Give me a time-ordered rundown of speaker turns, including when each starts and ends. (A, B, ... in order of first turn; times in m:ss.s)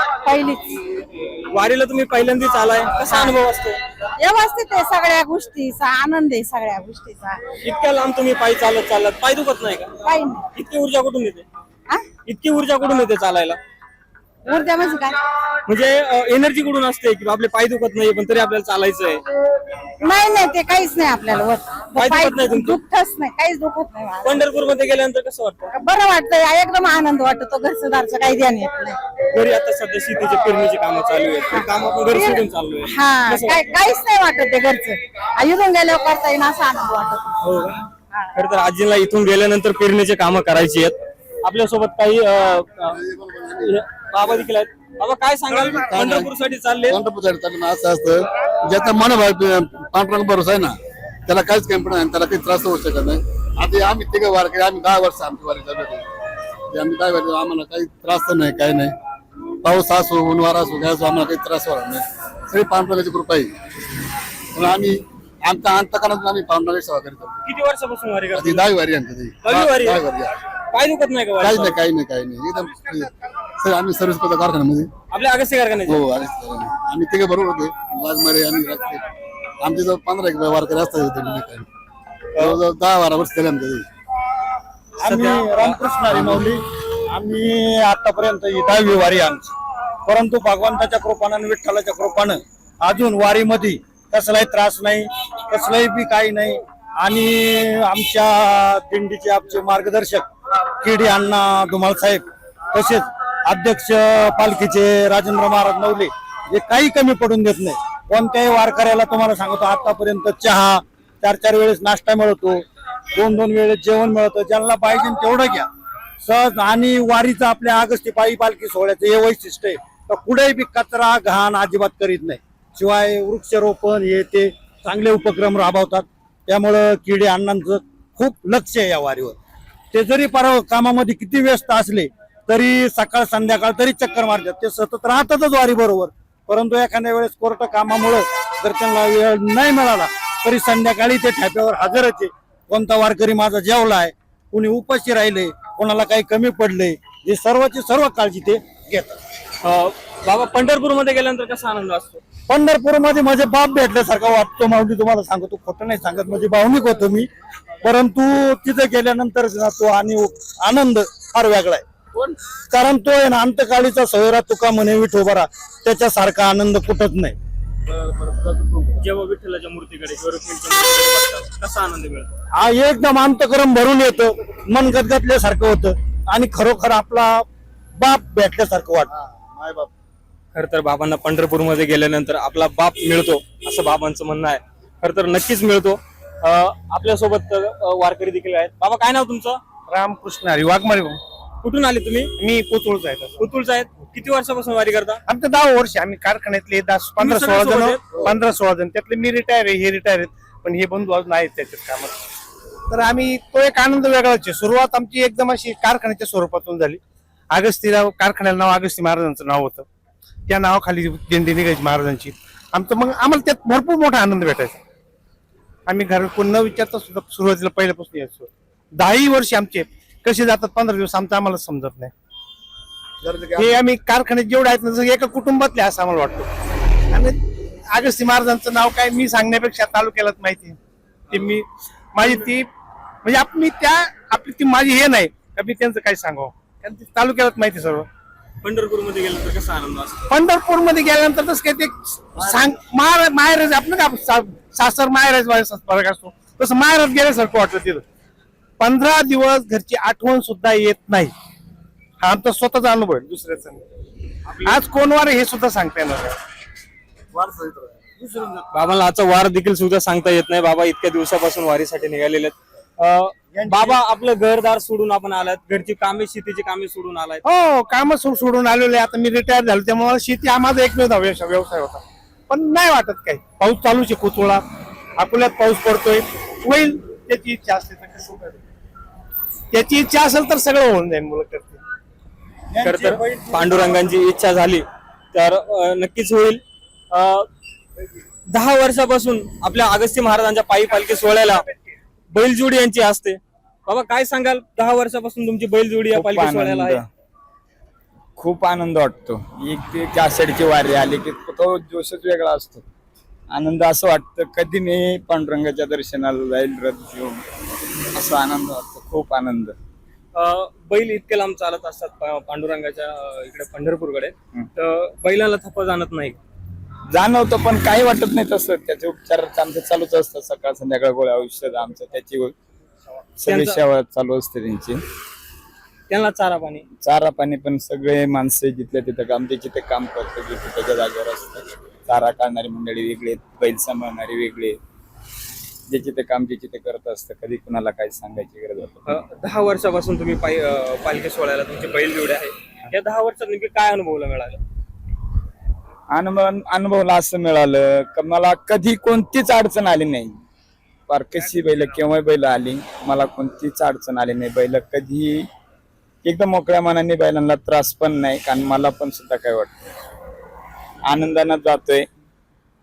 0:00.2-0:00.6 A
0:01.5-0:03.8 B
0:04.2-0:07.4 A
0:07.6-0:09.9 B
0:10.0-0:10.4 A
0:10.5-0:11.4 B
0:12.3-0:13.6 B
0:14.5-0:15.2 A
0:15.7-0:19.2 B
0:20.0-0:24.4 A
0:22.0-0:22.8 B
0:24.2-0:25.7 B
0:25.7-0:29.0 A
0:29.3-0:33.7 B
0:32.1-0:37.3 A
0:37.4-0:37.8 B
0:38.3-0:43.0 B
0:42.9-0:43.7 C
0:43.6-0:47.0 B
0:45.5-0:46.3 C
0:46.9-0:50.8 C
0:51.3-0:56.0 C
0:56.7-0:58.9 C
0:59.6-1:03.5 C
1:04.5-1:07.4 C
1:07.5-1:08.7 B
1:08.4-1:10.3 C
1:09.4-1:10.0 B
1:10.7-1:11.8 B
1:11.4-1:14.9 C
1:15.1-1:16.1 B
1:15.9-1:19.0 C
1:19.6-1:21.7 C
1:22.4-1:23.8 C
1:25.0-1:25.8 B
1:25.0-1:29.5 D
1:30.1-1:40.3 D
1:40.8-1:55.7 D
1:56.2-2:09.4 D
2:09.9-2:29.2 D
2:29.6-2:32.2 B
2:32.5-2:37.3 D
2:37.8-2:41.8 D
2:42.7-2:47.4 D
2:49.0-2:52.3 B
2:52.5-2:57.4 D
2:58.0-2:59.1 D
2:59.2-2:59.9 C
3:00.5-3:09.6 B
3:09.9-3:11.2 E
3:11.6-3:12.3 B
3:12.4-3:13.4 E
3:13.4-3:15.2 B
3:15.3-3:22.2 E
3:17.2-3:18.2 B
3:22.9-3:27.0 E
3:27.5-3:29.9 E
3:30.5-3:34.8 E
3:35.9-3:42.1 E
3:43.2-3:43.8 C
3:43.6-3:46.5 E
3:47.1-3:47.4 E
3:47.9-3:50.8 E
3:51.3-3:52.7 E
3:51.3-3:51.6 B
3:53.2-3:58.1 E
3:58.6-4:00.2 B
4:00.3-4:08.0 E
4:08.8-4:11.3 E
4:12.2-4:13.8 E
4:14.6-4:16.4 E
4:17.4-4:18.5 C
4:18.7-4:27.4 B
4:23.6-4:24.0 E
4:27.4-4:34.6 E
4:35.2-4:38.6 E
4:39.7-4:41.8 E
4:42.8-4:47.5 B
4:42.8-4:43.4 D
4:48.5-4:51.6 B
4:52.3-4:57.0 B
4:56.1-4:57.1 F
4:58.4-5:02.8 F
5:03.5-5:07.4 F
5:08.1-5:09.8 F
5:10.4-5:16.4 B
5:17.1-5:22.5 F
5:23.4-5:25.0 F
5:23.5-5:23.8 B
5:26.1-5:26.9 B
5:27.0-5:34.8 F
5:35.9-5:39.0 F
5:39.1-5:44.6 B
5:46.1-5:50.4 F
5:51.1-5:55.5 F
5:56.2-5:59.8 F
6:01.1-6:02.1 F